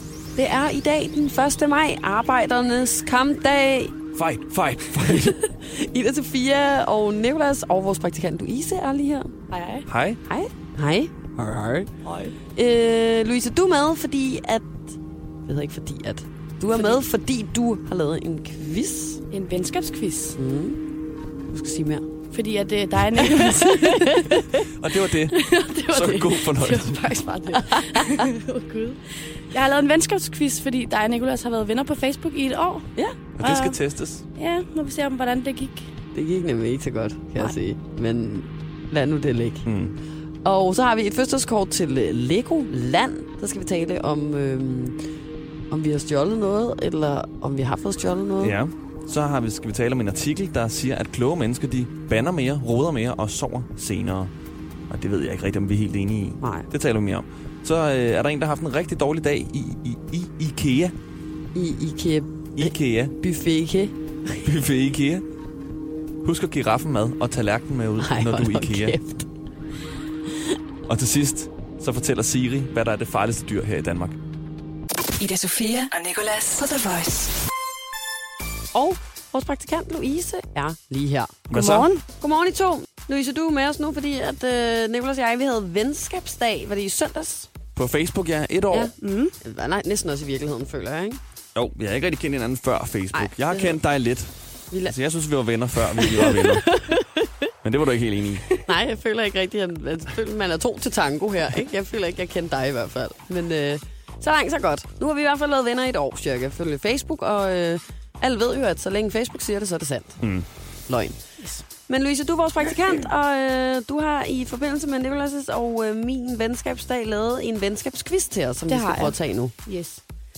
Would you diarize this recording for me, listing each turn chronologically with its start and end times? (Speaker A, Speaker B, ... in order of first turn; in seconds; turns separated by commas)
Speaker A: 0.3-3.9, Speaker B: 4.1-5.3, Speaker A: 4.9-9.3, Speaker C: 9.5-9.9, Speaker B: 9.9-10.2, Speaker A: 10.2-11.9, Speaker C: 12.0-12.3, Speaker A: 12.5-19.2, Speaker C: 19.3-20.4, Speaker A: 20.3-20.8, Speaker A: 21.5-22.1, Speaker C: 22.3-24.4, Speaker A: 23.2-24.6, Speaker B: 24.7-27.1, Speaker C: 25.1-33.8, Speaker A: 27.5-28.2, Speaker B: 33.4-34.2, Speaker C: 34.4-35.9, Speaker A: 36.1-39.6, Speaker B: 39.6-40.0, Speaker A: 40.5-45.0, Speaker A: 45.7-48.6, Speaker B: 48.4-54.3, Speaker B: 54.9-61.0, Speaker A: 56.4-56.7, Speaker A: 61.5-63.9, Speaker B: 62.6-63.1, Speaker B: 64.4-65.2, Speaker B: 66.2-69.0, Speaker A: 68.0-69.3, Speaker B: 70.9-74.2, Speaker D: 75.2-77.3, Speaker A: 78.7-81.4, Speaker B: 81.5-81.9, Speaker C: 81.5-82.0, Speaker A: 82.2-87.5, Speaker B: 87.8-88.9, Speaker A: 88.7-91.2, Speaker C: 89.0-89.3, Speaker B: 91.5-94.3, Speaker A: 93.1-93.8, Speaker A: 94.7-95.0, Speaker B: 94.8-96.6, Speaker A: 96.0-97.3, Speaker B: 97.6-98.4, Speaker A: 98.6-110.2, Speaker A: 110.9-111.2, Speaker C: 111.4-111.6, Speaker A: 111.9-119.5, Speaker C: 118.7-120.0